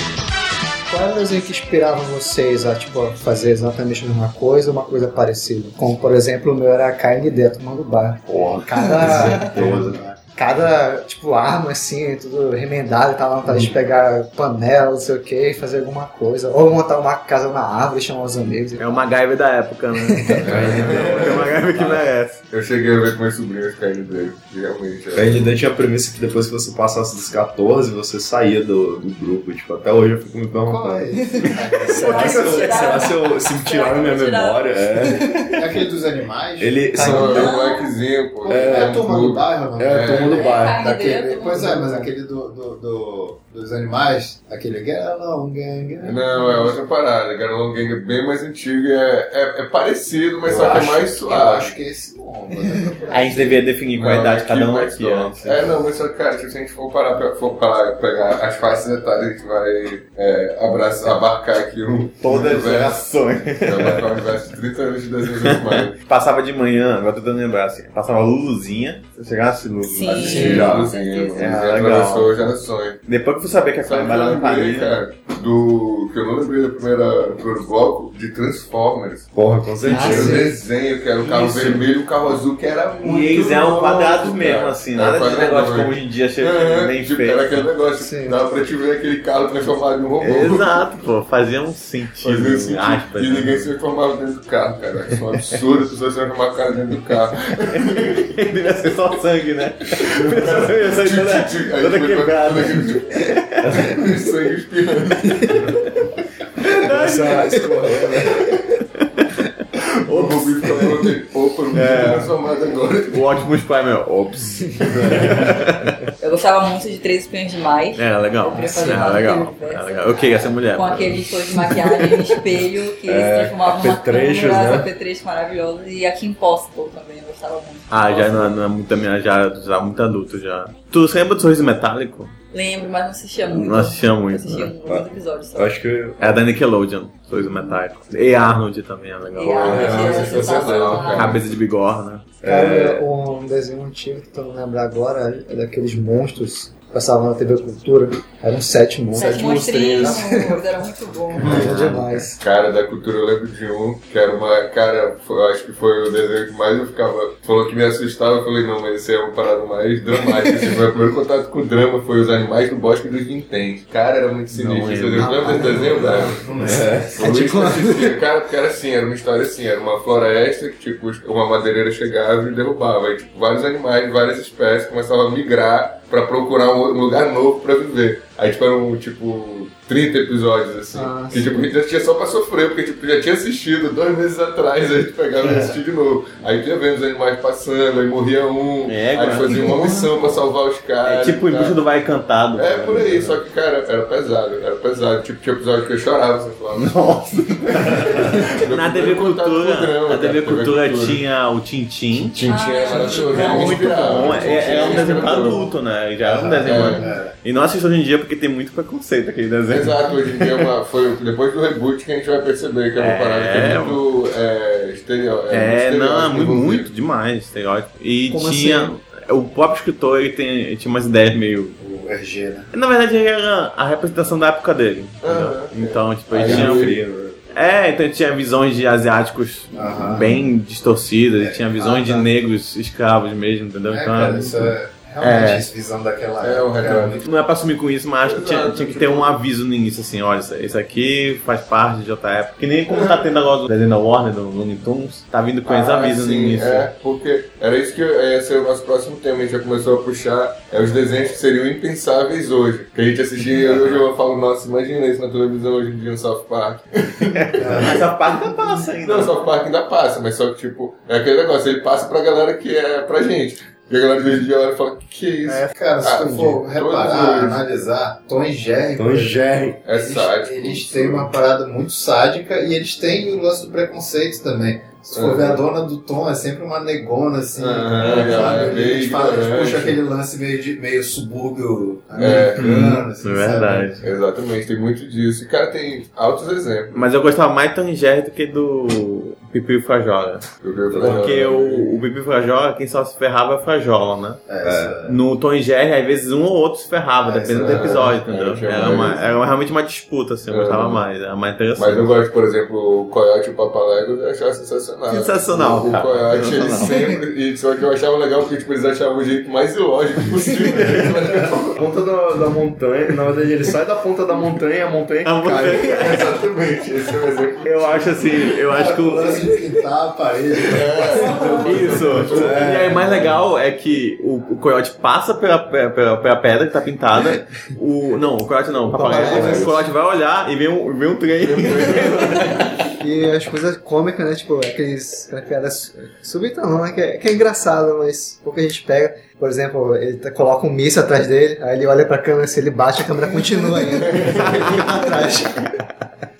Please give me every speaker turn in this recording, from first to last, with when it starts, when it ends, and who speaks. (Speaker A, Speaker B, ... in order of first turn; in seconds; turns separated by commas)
Speaker A: 0.9-19.1, Speaker B: 8.3-9.8, Speaker C: 9.0-10.3, Speaker D: 9.1-9.9, Speaker B: 18.8-22.4, Speaker A: 20.0-20.7, Speaker E: 20.4-21.9, Speaker D: 20.5-21.3, Speaker E: 22.5-25.5, Speaker D: 25.1-35.5, Speaker C: 30.6-33.0, Speaker A: 31.3-31.5, Speaker F: 32.0-34.9, Speaker A: 32.1-32.6, Speaker A: 35.1-35.6, Speaker C: 35.5-37.5, Speaker D: 36.6-37.5, Speaker A: 37.0-37.4, Speaker E: 37.0-40.3, Speaker F: 37.3-37.9, Speaker D: 38.5-39.1, Speaker C: 38.5-46.8, Speaker D: 39.8-40.8, Speaker F: 40.3-41.7, Speaker A: 41.5-42.1, Speaker E: 46.0-51.7, Speaker C: 50.4-53.6, Speaker B: 53.1-55.6, Speaker E: 54.0-66.0, Speaker B: 62.2-64.1, Speaker B: 65.4-70.7, Speaker F: 69.9-71.6, Speaker E: 70.0-73.0, Speaker A: 70.3-70.7, Speaker D: 70.3-70.8, Speaker B: 71.3-72.5, Speaker B: 73.0-75.0, Speaker E: 73.8-79.3, Speaker D: 79.3-80.5, Speaker E: 79.8-90.7, Speaker A: 79.8-80.6, Speaker B: 83.0-87.6, Speaker A: 88.0-88.4, Speaker B: 90.2-93.7, Speaker E: 92.2-98.3, Speaker B: 97.7-104.0, Speaker E: 100.0-105.8, Speaker B: 106.6-108.0, Speaker D: 106.8-108.5, Speaker B: 108.9-109.3, Speaker E: 110.0-113.3, Speaker B: 110.1-110.8, Speaker D: 111.7-112.3, Speaker B: 113.1-116.0, Speaker D: 114.9-115.6, Speaker F: 116.2-128.6, Speaker B: 118.0-121.8, Speaker A: 118.6-119.1, Speaker D: 123.0-124.9, Speaker B: 127.9-132.3, Speaker F: 132.5-135.8, Speaker B: 133.5-134.7, Speaker D: 134.8-136.5, Speaker B: 136.2-140.3, Speaker F: 139.3-141.4, Speaker E: 139.6-141.4, Speaker D: 139.9-140.9, Speaker B: 141.1-142.2, Speaker D: 142.4-143.1, Speaker A: 142.4-150.7, Speaker F: 149.1-151.6, Speaker A: 151.4-152.4, Speaker E: 151.4-151.7, Speaker B: 151.4-152.1, Speaker E: 152.4-191.8, Speaker B: 164.5-166.1, Speaker A: 165.2-166.2, Speaker C: 165.8-167.2, Speaker D: 166.6-167.2, Speaker A: 167.2-168.2, Speaker A: 180.9-181.4, Speaker B: 188.8-189.7, Speaker A: 189.6-190.1, Speaker B: 191.0-193.3, Speaker E: 192.6-201.2, Speaker B: 196.7-210.5, Speaker E: 202.3-205.7, Speaker F: 202.4-205.7, Speaker C: 206.2-207.3, Speaker E: 206.6-207.1, Speaker E: 209.7-216.9, Speaker B: 213.0-214.0, Speaker B: 215.5-221.8, Speaker A: 218.3-218.9, Speaker C: 221.8-222.7, Speaker B: 222.7-226.9, Speaker E: 225.2-227.0, Speaker D: 226.4-227.4, Speaker B: 227.5-235.7, Speaker C: 229.7-230.3, Speaker C: 231.4-232.3, Speaker C: 233.9-237.2, Speaker E: 236.4-237.2, Speaker B: 237.2-246.9, Speaker E: 238.2-239.4, Speaker E: 242.9-243.3, Speaker E: 245.7-258.0, Speaker B: 257.2-259.4, Speaker C: 257.6-258.1, Speaker E: 258.9-267.6, Speaker C: 265.5-284.0, Speaker D: 268.9-269.8, Speaker E: 269.8-271.3, Speaker E: 275.1-275.6, Speaker E: 277.6-280.0, Speaker B: 278.0-278.6, Speaker E: 282.1-282.7, Speaker B: 282.6-284.0, Speaker E: 284.0-287.0, Speaker B: 286.9-294.4, Speaker E: 290.6-291.9, Speaker C: 294.5-295.2, Speaker D: 294.6-294.9, Speaker B: 295.1-302.1, Speaker C: 297.2-298.1, Speaker E: 297.5-299.3, Speaker E: 300.5-301.0, Speaker E: 301.7-311.8, Speaker B: 305.1-307.0, Speaker D: 311.8-315.9, Speaker B: 315.2-316.3, Speaker E: 315.9-318.3, Speaker B: 317.6-319.6, Speaker C: 318.6-322.7, Speaker E: 320.6-322.7, Speaker B: 321.6-332.8, Speaker D: 322.3-323.3, Speaker A: 328.9-329.8, Speaker E: 331.4-332.6, Speaker A: 333.0-345.7, Speaker E: 343.9-345.0